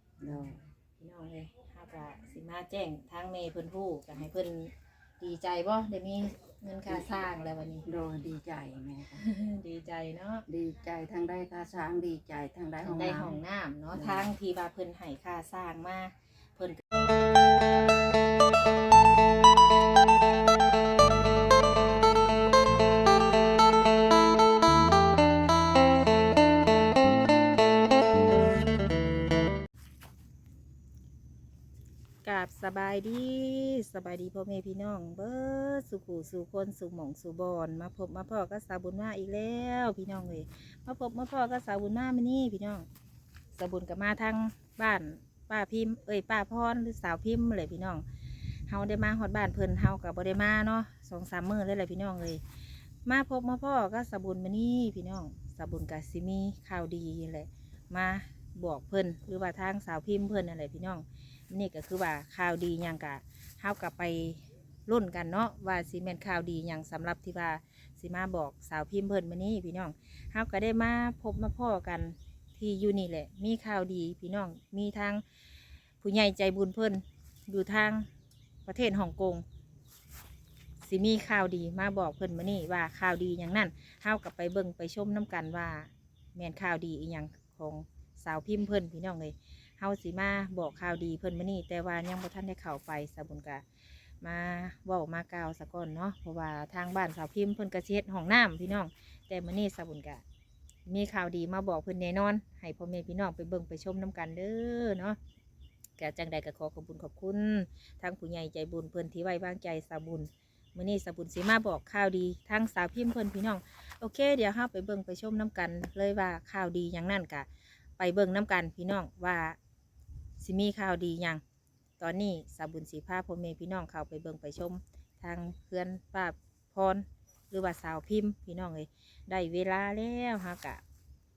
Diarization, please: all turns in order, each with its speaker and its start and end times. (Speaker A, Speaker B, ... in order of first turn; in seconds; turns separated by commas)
Speaker A: 0.2-0.6, Speaker B: 1.0-7.9, Speaker A: 7.8-9.2, Speaker B: 9.2-10.4, Speaker A: 10.5-13.4, Speaker B: 12.8-16.8, Speaker A: 13.9-14.3, Speaker B: 32.2-42.9, Speaker B: 43.5-52.4, Speaker B: 53.0-75.2, Speaker B: 76.0-78.1, Speaker B: 78.7-79.4, Speaker B: 80.8-93.6, Speaker B: 94.2-100.2, Speaker B: 100.8-105.2, Speaker B: 106.0-117.5, Speaker B: 118.0-119.6, Speaker B: 120.4-121.4, Speaker B: 122.0-130.8